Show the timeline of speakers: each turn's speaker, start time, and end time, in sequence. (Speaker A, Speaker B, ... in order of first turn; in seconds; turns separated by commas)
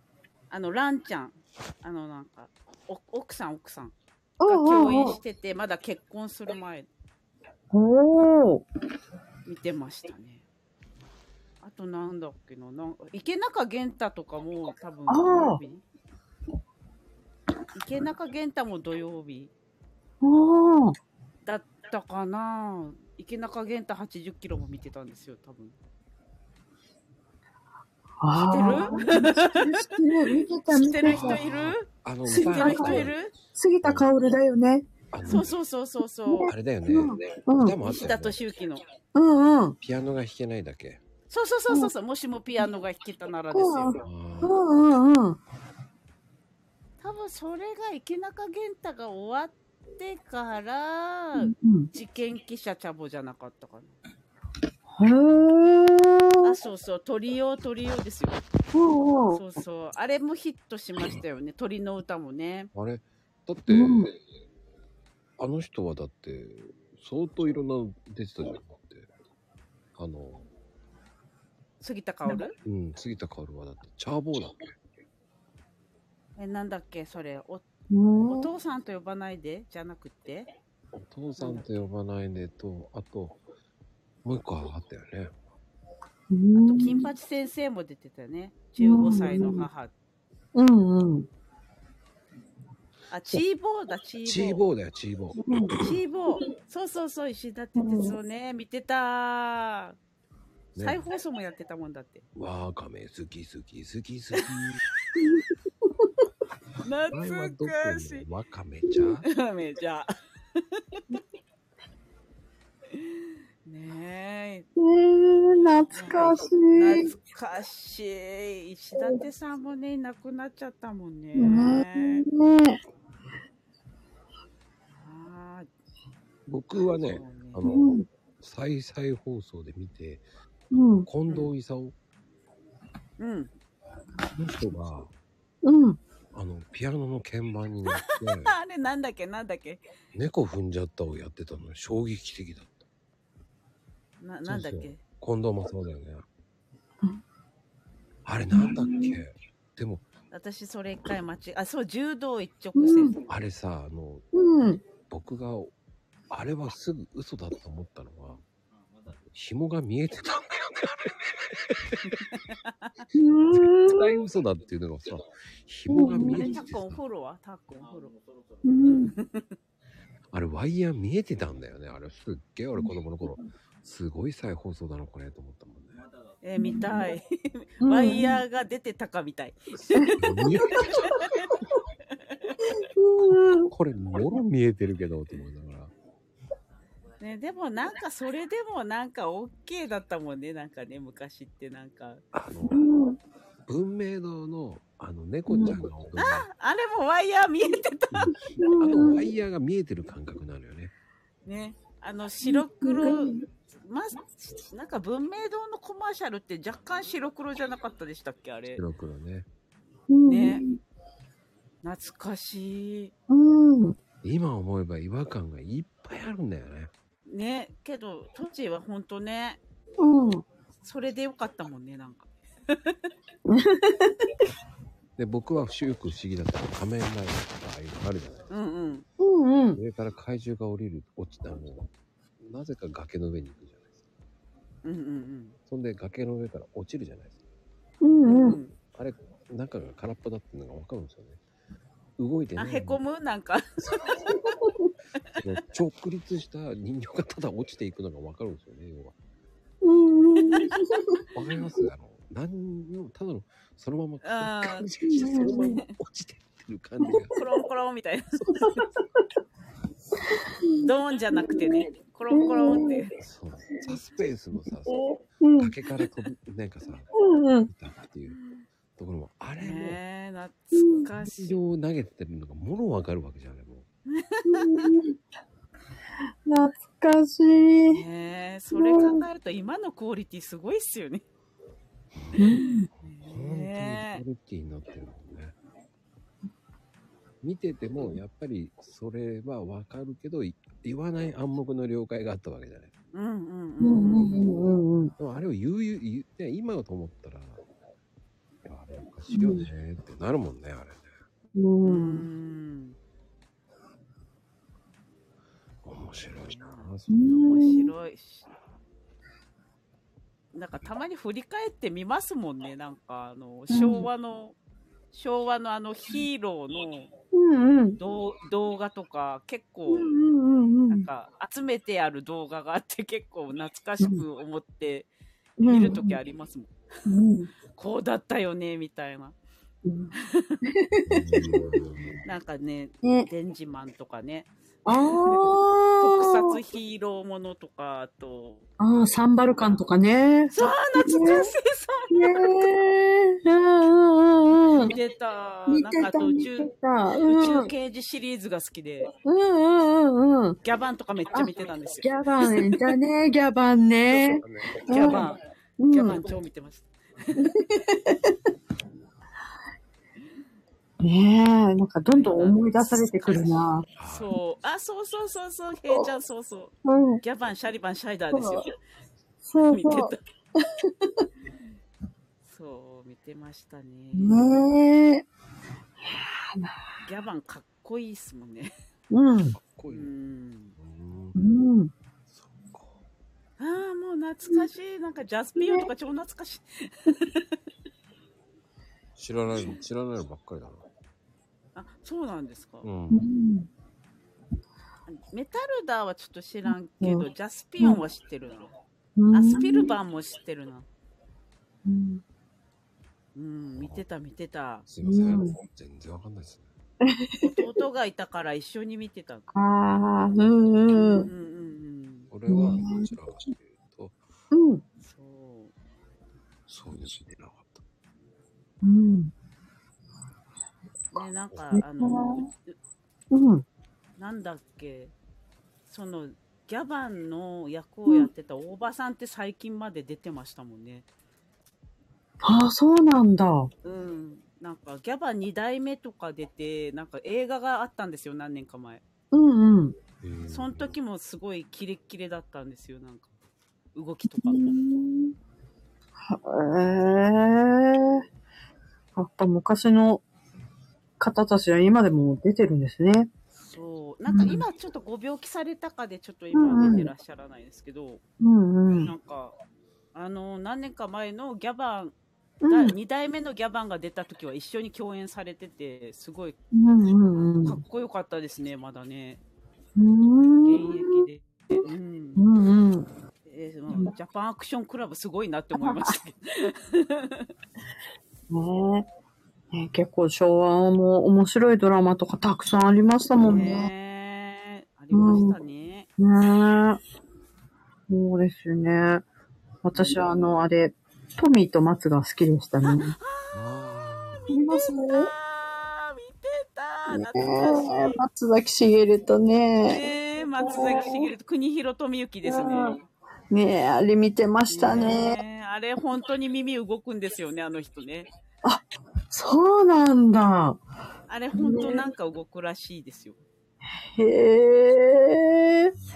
Speaker A: 0.5-3.9, Speaker B: 4.4-5.2, Speaker A: 4.5-6.9, Speaker B: 7.7-8.6, Speaker A: 9.4-10.4, Speaker A: 11.6-15.8, Speaker B: 15.1-15.6, Speaker A: 17.7-19.5, Speaker B: 20.2-20.9, Speaker A: 21.4-25.8, Speaker B: 28.2-31.4, Speaker A: 28.4-31.9, Speaker C: 31.0-33.1, Speaker B: 32.3-34.9, Speaker A: 32.4-33.3, Speaker C: 33.8-34.1, Speaker C: 35.1-35.5, Speaker A: 35.3-36.5, Speaker B: 36.3-37.8, Speaker C: 36.5-38.4, Speaker A: 37.8-38.8, Speaker B: 39.1-39.8, Speaker C: 39.8-41.0, Speaker A: 41.3-44.0, Speaker B: 43.5-45.4, Speaker C: 44.0-44.6, Speaker A: 47.0-54.0, Speaker B: 51.4-51.9, Speaker B: 54.9-56.5, Speaker A: 56.4-58.4, Speaker B: 58.7-59.4, Speaker A: 59.3-62.7, Speaker C: 62.7-64.2, Speaker B: 63.7-64.1, Speaker C: 65.4-69.1, Speaker C: 69.9-70.5, Speaker A: 71.8-72.5, Speaker C: 72.6-74.8, Speaker A: 76.4-77.6, Speaker B: 77.9-78.5, Speaker A: 78.3-80.5, Speaker C: 80.9-83.4, Speaker A: 81.4-81.7, Speaker C: 84.2-85.3, Speaker B: 86.3-87.0, Speaker A: 86.5-89.9, Speaker B: 88.8-89.7, Speaker B: 90.5-91.3, Speaker A: 93.1-94.6, Speaker C: 94.2-95.9, Speaker B: 95.4-95.8, Speaker A: 95.8-100.0, Speaker B: 97.8-98.2, Speaker C: 100.7-101.0, Speaker A: 100.7-102.2, Speaker C: 102.3-104.8, Speaker A: 106.8-108.2, Speaker C: 107.1-109.3, Speaker A: 109.2-111.0, Speaker A: 112.9-114.7, Speaker B: 114.8-117.1, Speaker A: 115.9-122.2, Speaker B: 119.0-119.2, Speaker B: 121.3-122.8, Speaker A: 125.0-125.7, Speaker C: 126.5-130.2, Speaker A: 127.0-127.6, Speaker B: 127.7-128.1, Speaker B: 130.7-131.1, Speaker C: 131.1-131.9, Speaker A: 133.2-133.5, Speaker C: 134.3-135.1, Speaker B: 135.6-136.0, Speaker C: 136.3-138.5, Speaker A: 137.9-139.8, Speaker C: 140.1-142.8, Speaker A: 144.2-145.0, Speaker C: 144.4-146.2, Speaker C: 148.2-150.0, Speaker B: 148.5-149.2, Speaker A: 150.3-153.1, Speaker B: 152.8-153.1, Speaker C: 153.3-154.2, Speaker B: 154.3-154.8, Speaker C: 155.1-155.7, Speaker C: 156.3-158.4, Speaker C: 159.3-162.2, Speaker A: 162.2-162.9, Speaker B: 163.1-164.1, Speaker C: 163.5-167.0, Speaker B: 165.9-166.5, Speaker A: 166.1-168.2, Speaker B: 168.6-169.1, Speaker A: 168.8-169.5, Speaker C: 170.3-176.0, Speaker A: 176.4-181.6, Speaker B: 176.6-177.0, Speaker B: 177.8-178.3, Speaker C: 180.2-181.3, Speaker B: 182.8-183.7, Speaker C: 183.7-185.9, Speaker A: 187.2-192.2, Speaker C: 192.3-192.8, Speaker B: 192.7-193.2, Speaker C: 193.7-196.4, Speaker B: 195.5-195.8, Speaker A: 196.2-198.3, Speaker C: 198.1-200.9, Speaker B: 198.6-199.2, Speaker A: 201.4-208.8, Speaker B: 202.4-203.4, Speaker C: 208.7-209.5, Speaker B: 210.1-210.8, Speaker A: 210.3-210.6, Speaker A: 211.8-213.1, Speaker B: 213.3-213.9, Speaker C: 214.2-216.9, Speaker A: 217.3-219.6, Speaker B: 220.0-220.4, Speaker A: 220.8-223.0, Speaker B: 223.5-224.2, Speaker C: 225.2-228.5, Speaker A: 228.5-229.1, Speaker B: 229.2-229.8, Speaker C: 229.7-233.9, Speaker A: 234.8-235.6, Speaker C: 235.7-237.3, Speaker B: 238.0-238.6, Speaker A: 238.2-238.7, Speaker C: 238.9-241.4, Speaker C: 242.2-243.0, Speaker A: 242.6-244.4, Speaker B: 244.6-244.9, Speaker C: 245.4-249.1, Speaker B: 249.8-251.2, Speaker C: 251.3-257.4, Speaker A: 254.2-254.9, Speaker B: 255.0-255.8, Speaker A: 255.4-255.8, Speaker A: 257.3-258.8, Speaker C: 258.3-258.7, Speaker B: 260.3-263.0, Speaker A: 260.8-263.1, Speaker C: 263.2-265.0, Speaker B: 264.9-265.7, Speaker C: 265.6-267.1, Speaker B: 267.1-267.7, Speaker C: 267.7-268.4, Speaker A: 268.3-268.6, Speaker C: 268.9-270.0, Speaker A: 269.6-271.6, Speaker B: 270.7-271.1, Speaker C: 271.2-273.9, Speaker A: 274.1-274.9, Speaker B: 274.4-275.1, Speaker B: 276.4-278.0, Speaker A: 277.9-281.2, Speaker B: 278.7-279.2, Speaker C: 282.1-282.4, Speaker B: 282.4-282.9, Speaker A: 282.6-284.2, Speaker C: 283.0-285.5, Speaker C: 287.4-292.9, Speaker A: 293.1-294.4, Speaker B: 293.8-295.1, Speaker C: 295.2-297.6, Speaker C: 298.6-301.1, Speaker B: 299.3-299.7, Speaker B: 301.5-302.2, Speaker A: 301.8-303.0, Speaker C: 305.8-307.2, Speaker A: 306.5-308.5, Speaker B: 307.1-307.9, Speaker A: 310.5-314.6, Speaker B: 313.7-314.1, Speaker A: 315.1-317.1, Speaker B: 317.3-318.0, Speaker A: 318.0-320.1, Speaker B: 319.9-321.1, Speaker A: 320.9-325.1, Speaker B: 325.6-326.2, Speaker A: 325.6-326.7, Speaker B: 327.1-327.5, Speaker A: 327.7-329.4, Speaker B: 329.8-330.1, Speaker A: 330.1-330.6, Speaker B: 330.6-331.5, Speaker C: 331.1-332.2, Speaker A: 332.2-335.4, Speaker B: 333.0-333.3, Speaker B: 334.9-336.6, Speaker A: 336.0-338.7, Speaker B: 338.8-341.5, Speaker A: 340.5-342.7, Speaker B: 342.1-344.9, Speaker A: 344.8-349.1, Speaker B: 345.7-347.7, Speaker B: 349.2-350.6, Speaker A: 350.6-352.9, Speaker B: 352.0-356.2, Speaker A: 354.4-357.5, Speaker B: 357.4-358.3, Speaker B: 361.0-363.8, Speaker A: 362.1-368.7, Speaker C: 364.0-364.3, Speaker B: 366.8-367.2, Speaker B: 368.3-368.6, Speaker B: 369.4-370.1, Speaker A: 369.7-370.2, Speaker B: 370.8-371.2, Speaker A: 372.4-374.4, Speaker B: 374.1-375.3, Speaker B: 376.1-376.8, Speaker A: 377.0-378.7, Speaker B: 379.1-379.6, Speaker C: 379.5-380.1, Speaker A: 379.9-380.8, Speaker C: 380.8-381.4, Speaker B: 381.4-381.9, Speaker C: 382.3-383.0, Speaker A: 383.6-387.6, Speaker B: 385.6-385.9, Speaker C: 389.1-390.8, Speaker A: 391.7-392.9, Speaker C: 392.8-393.2, Speaker B: 393.1-393.7, Speaker A: 395.1-398.7, Speaker B: 397.0-397.2, Speaker B: 399.2-399.9, Speaker A: 399.3-400.9, Speaker B: 401.9-402.2, Speaker A: 403.3-404.9, Speaker C: 403.8-404.0, Speaker C: 404.9-406.7, Speaker B: 405.0-405.5, Speaker B: 407.0-407.6, Speaker A: 407.4-409.5, Speaker B: 409.5-411.3, Speaker A: 411.1-412.3, Speaker C: 412.3-414.2, Speaker B: 412.5-413.1, Speaker B: 414.5-414.8, Speaker A: 415.0-415.7, Speaker C: 416.7-417.8, Speaker B: 418.8-419.3, Speaker A: 421.1-422.7, Speaker B: 421.8-422.4, Speaker B: 423.3-423.6, Speaker A: 424.2-425.1, Speaker A: 425.9-431.1, Speaker B: 432.4-433.7, Speaker A: 433.8-439.0, Speaker B: 439.3-439.9, Speaker C: 440.2-441.0, Speaker A: 440.5-443.3, Speaker A: 443.9-444.8, Speaker B: 444.4-445.3, Speaker B: 446.3-448.2, Speaker B: 449.1-450.2, Speaker B: 451.2-453.3, Speaker A: 453.6-458.2, Speaker B: 454.3-454.6, Speaker B: 456.5-457.1, Speaker B: 458.4-459.1, Speaker A: 459.0-459.5, Speaker A: 460.1-462.1, Speaker B: 462.6-462.9, Speaker A: 462.7-466.6, Speaker B: 466.7-467.8, Speaker A: 467.6-469.4, Speaker B: 470.0-471.8, Speaker A: 470.6-472.4, Speaker B: 472.4-473.1, Speaker A: 473.4-477.5, Speaker B: 475.8-476.1, Speaker B: 478.5-479.1, Speaker B: 479.7-483.9, Speaker A: 483.4-486.1, Speaker B: 485.1-485.6, Speaker B: 486.2-487.0, Speaker B: 488.1-489.2, Speaker B: 489.8-493.1, Speaker A: 492.8-493.6, Speaker C: 493.5-494.5, Speaker A: 494.5-498.2, Speaker B: 494.5-495.3, Speaker B: 497.1-500.1, Speaker A: 499.8-503.0, Speaker B: 500.6-501.3, Speaker B: 502.4-503.0, Speaker B: 503.5-505.4, Speaker A: 504.7-508.3, Speaker B: 508.6-510.8, Speaker A: 511.3-513.4, Speaker B: 511.5-512.1, Speaker B: 514.1-515.9